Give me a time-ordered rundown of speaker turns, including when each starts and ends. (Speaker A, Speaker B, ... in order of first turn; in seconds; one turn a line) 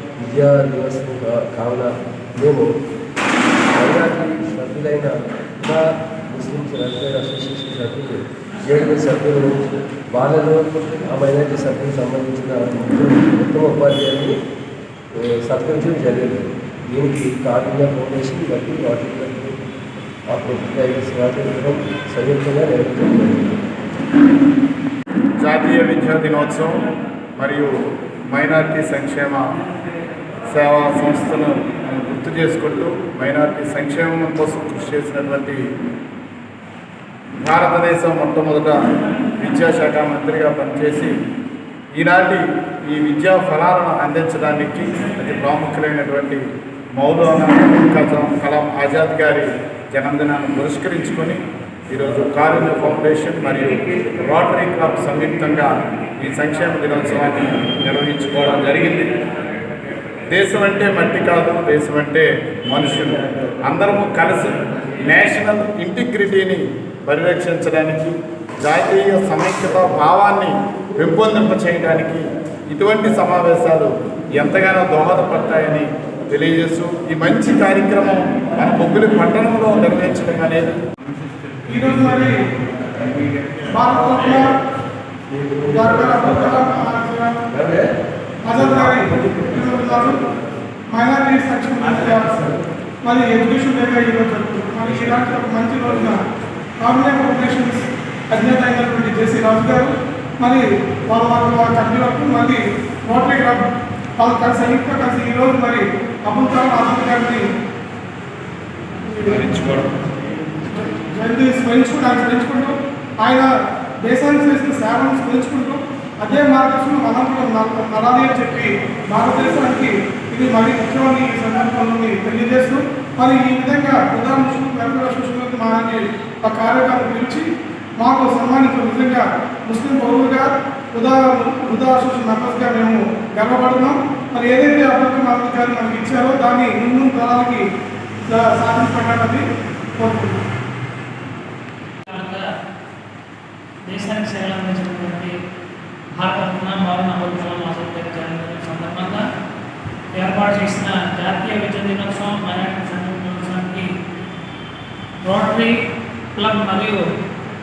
Speaker A: 0.2-2.7
Speaker A: 3.7-14.4
Speaker A: 15.1-19.6
Speaker A: 20.3-23.6
Speaker B: 25.4-26.8
Speaker B: 27.4-27.7
Speaker B: 28.3-29.5
Speaker B: 30.5-35.6
Speaker B: 37.4-38.8
Speaker B: 39.4-41.1
Speaker B: 41.9-59.1
Speaker B: 60.3-80.8
Speaker C: 81.7-82.4
Speaker C: 83.7-84.5
Speaker A: 85.3-85.7
Speaker C: 85.7-87.3
Speaker A: 87.5-87.8
Speaker C: 88.4-90.2
Speaker C: 90.9-92.3
Speaker C: 93.0-96.2
Speaker C: 96.8-107.5
Speaker C: 109.1-109.6
Speaker B: 109.3-109.9
Speaker C: 110.6-113.5
Speaker C: 114.0-137.6
Speaker C: 138.3-139.4
Speaker C: 140.0-140.4
Speaker D: 142.1-142.5
Speaker D: 143.9-145.3
Speaker D: 146.2-149.2
Speaker D: 150.1-153.9
Speaker D: 155.2-155.8
Speaker D: 156.3-157.0